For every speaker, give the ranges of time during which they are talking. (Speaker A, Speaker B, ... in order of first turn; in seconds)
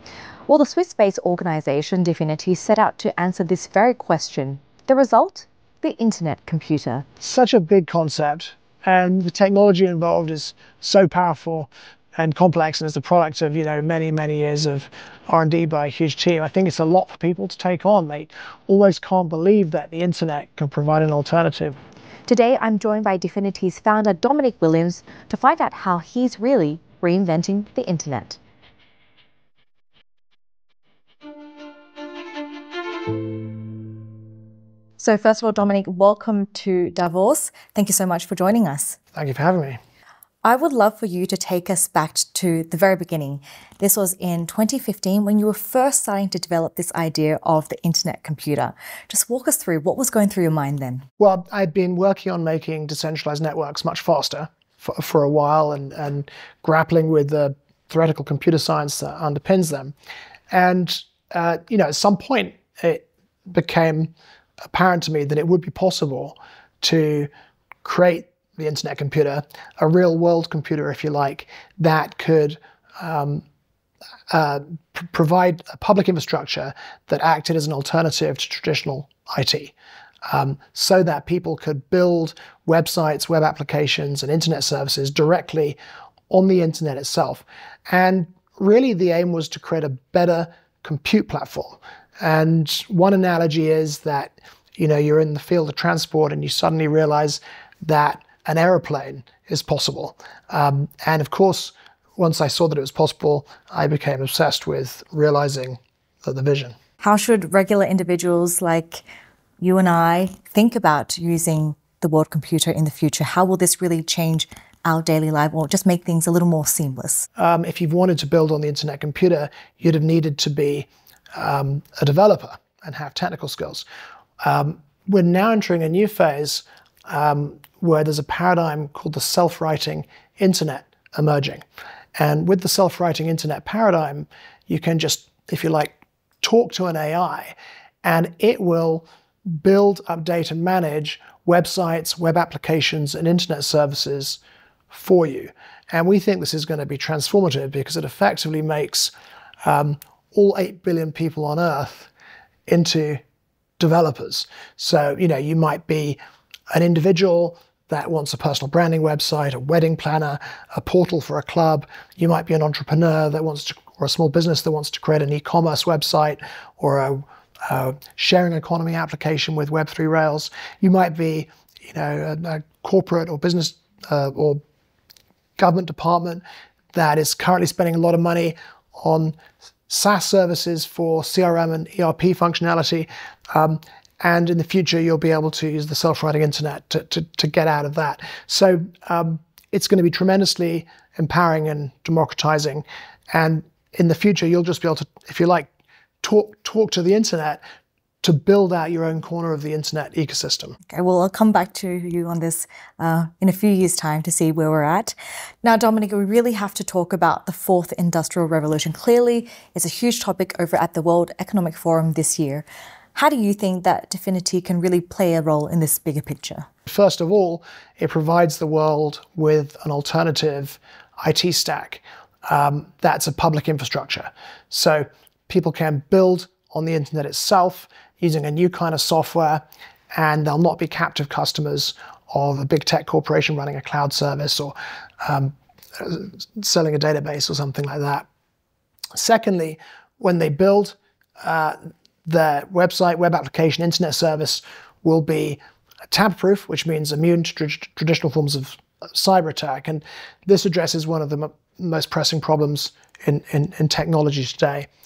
Speaker A: 0.5-7.0, 22.3-28.4, 35.0-39.0, 40.4-51.0, 107.0-109.0, 109.6-117.3, 200.9-216.7
Speaker B: 7.2-21.8, 39.1-39.8, 51.2-59.9, 60.5-64.1, 64.7-67.3, 67.8-73.4, 74.3-79.7, 80.3-85.8, 86.3-106.7, 117.4-123.8, 124.4-131.6, 132.2-149.1, 149.6-152.1, 152.7-153.2, 153.8-156.2, 156.7-174.6, 175.6-179.4, 179.9-195.7, 196.2-197.6, 198.2-200.8, 216.9-229.6, 230.1-238.3, 239.1-254.9